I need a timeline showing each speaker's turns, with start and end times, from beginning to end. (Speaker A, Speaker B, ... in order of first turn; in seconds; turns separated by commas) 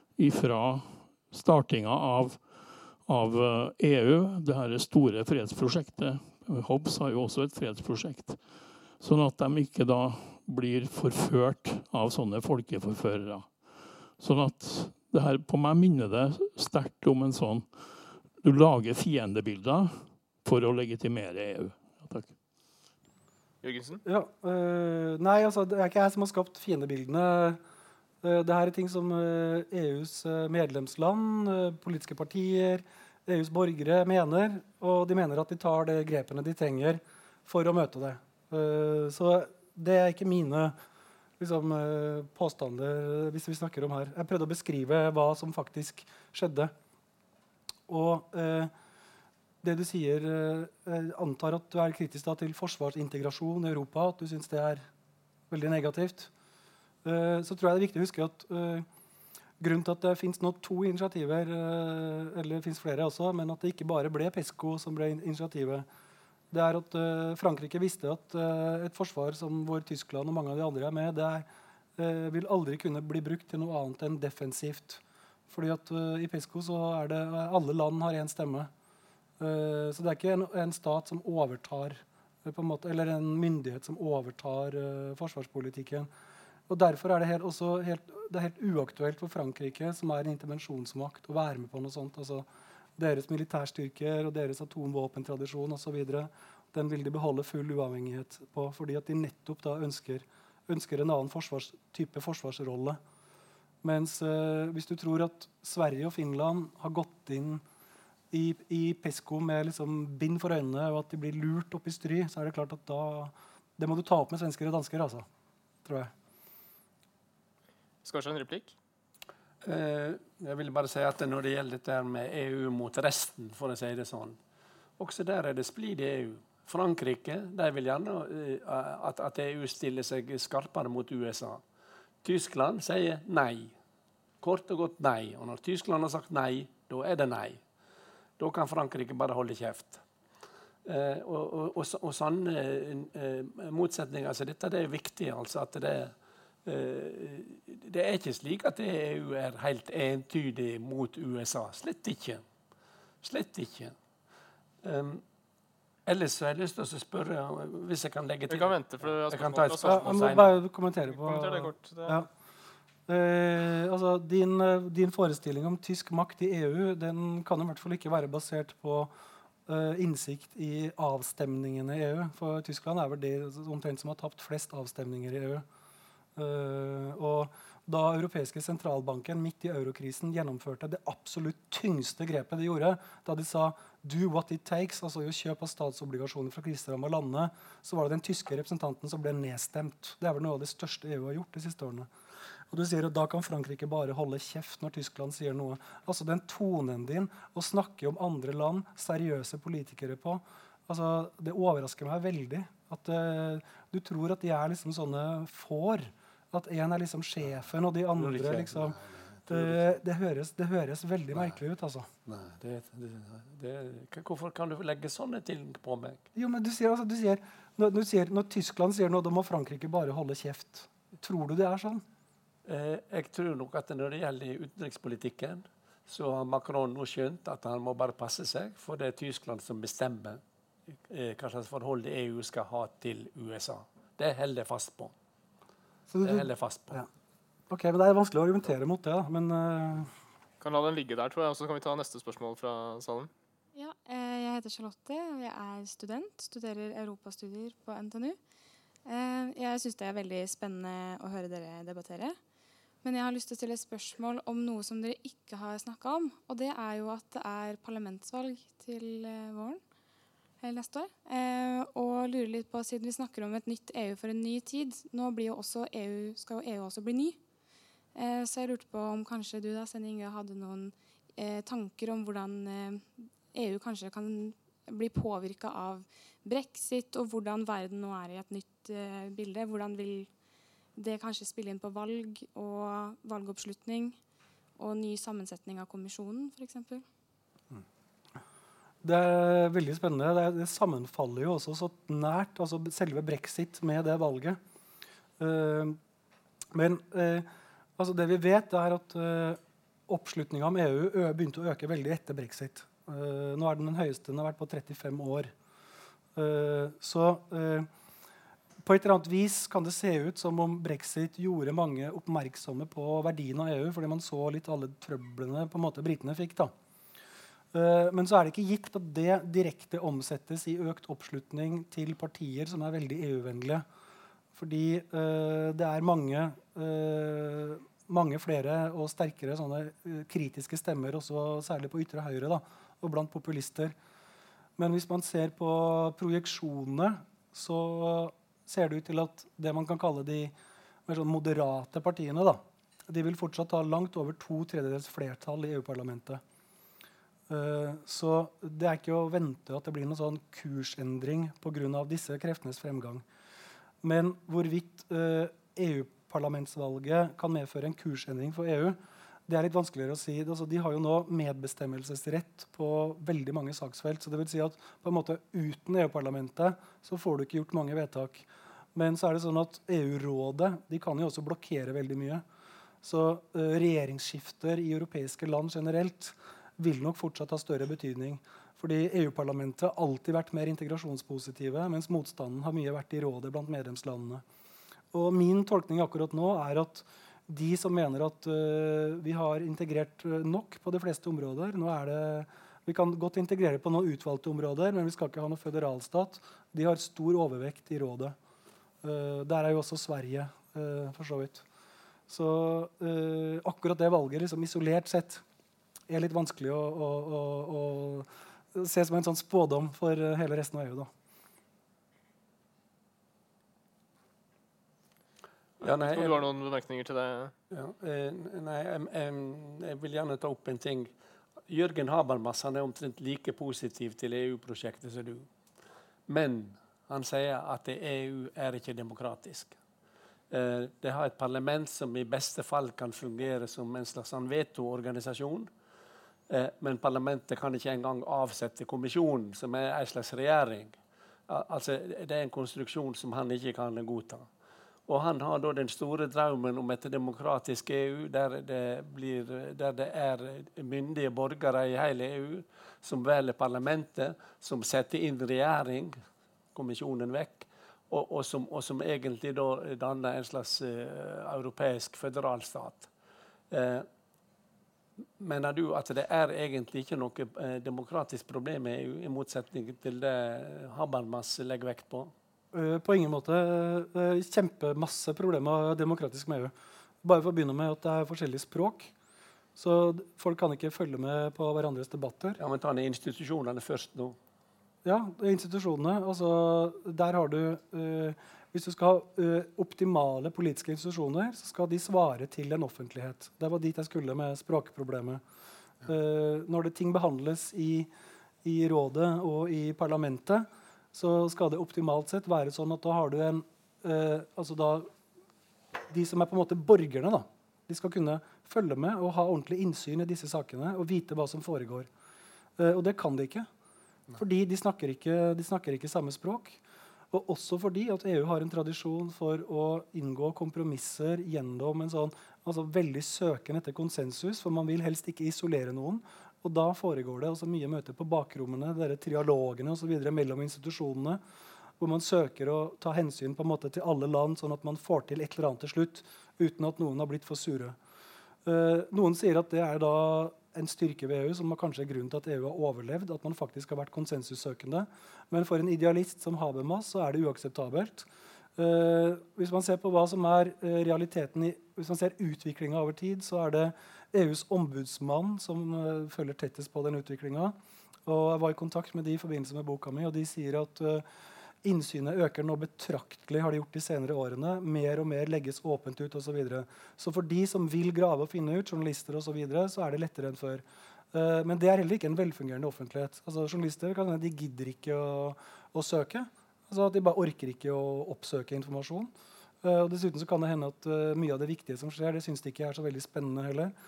Speaker A: 0.1-22.3, Speaker B: 23.6-24.0, Speaker C: 24.0-27.6, Speaker C: 28.2-40.7, Speaker C: 41.4-46.7, Speaker C: 47.9-48.7, Speaker C: 49.6-54.9, Speaker C: 55.5-56.3, Speaker C: 57.0-58.9, Speaker C: 59.6-65.8, Speaker C: 66.5-78.7, Speaker C: 79.4-86.1, Speaker C: 86.7-103.0, Speaker C: 103.8-107.6, Speaker C: 108.3-115.3, Speaker C: 115.8-116.1, Speaker B: 118.0-118.8, Speaker D: 119.6-124.4, Speaker D: 125.0-131.6, Speaker D: 132.2-133.7, Speaker D: 134.4-137.6, Speaker D: 138.4-140.0, Speaker D: 140.8-146.1, Speaker D: 146.6-152.4, Speaker D: 153.2-153.9, Speaker D: 154.8-155.2, Speaker D: 156.1-160.6, Speaker B: 158.5-160.4, Speaker C: 159.8-162.3, Speaker B: 161.1-162.2, Speaker C: 163.1-169.1, Speaker C: 169.7-175.6, Speaker C: 176.3-192.1, Speaker C: 192.7-212.1, Speaker D: 208.1-210.0, Speaker D: 212.3-216.2, Speaker C: 216.3-222.0, Speaker D: 222.7-230.4, Speaker D: 231.1-235.1, Speaker C: 236.1-237.1, Speaker D: 236.2-237.0, Speaker C: 237.7-240.1, Speaker B: 240.6-243.3, Speaker E: 243.7-248.4, Speaker E: 249.0-252.4, Speaker E: 253.0-259.8, Speaker E: 260.6-267.4, Speaker E: 268.1-280.3, Speaker E: 280.9-284.1, Speaker E: 284.8-287.0, Speaker C: 289.0-294.6, Speaker C: 295.4-296.0, Speaker C: 296.7-305.5, Speaker C: 306.3-307.9, Speaker C: 308.8-316.7, Speaker C: 317.7-323.8, Speaker C: 324.5-333.9, Speaker C: 334.8-340.5, Speaker C: 341.1-346.4, Speaker C: 347.5-353.2, Speaker C: 354.0-372.4, Speaker C: 373.0-384.4, Speaker C: 385.1-398.4, Speaker C: 399.0-401.6, Speaker C: 402.3-405.4, Speaker C: 406.1-411.1, Speaker B: 415.8-417.5, Speaker D: 415.8-416.4, Speaker D: 417.7-421.1, Speaker D: 421.7-425.5, Speaker D: 426.3-429.8, Speaker D: 430.5-435.7, Speaker D: 436.5-440.9, Speaker D: 441.5-444.4, Speaker D: 445.1-456.1, Speaker D: 456.7-463.1, Speaker D: 463.7-464.1, Speaker D: 465.4-472.3, Speaker C: 472.7-479.1, Speaker C: 479.8-482.6, Speaker D: 482.6-484.4, Speaker C: 485.0-495.4, Speaker C: 496.0-498.1, Speaker C: 498.6-505.1, Speaker C: 506.1-512.1, Speaker C: 512.8-513.7, Speaker C: 514.3-531.4, Speaker C: 532.0-538.0, Speaker C: 538.6-561.2, Speaker C: 561.8-579.3, Speaker C: 579.8-583.9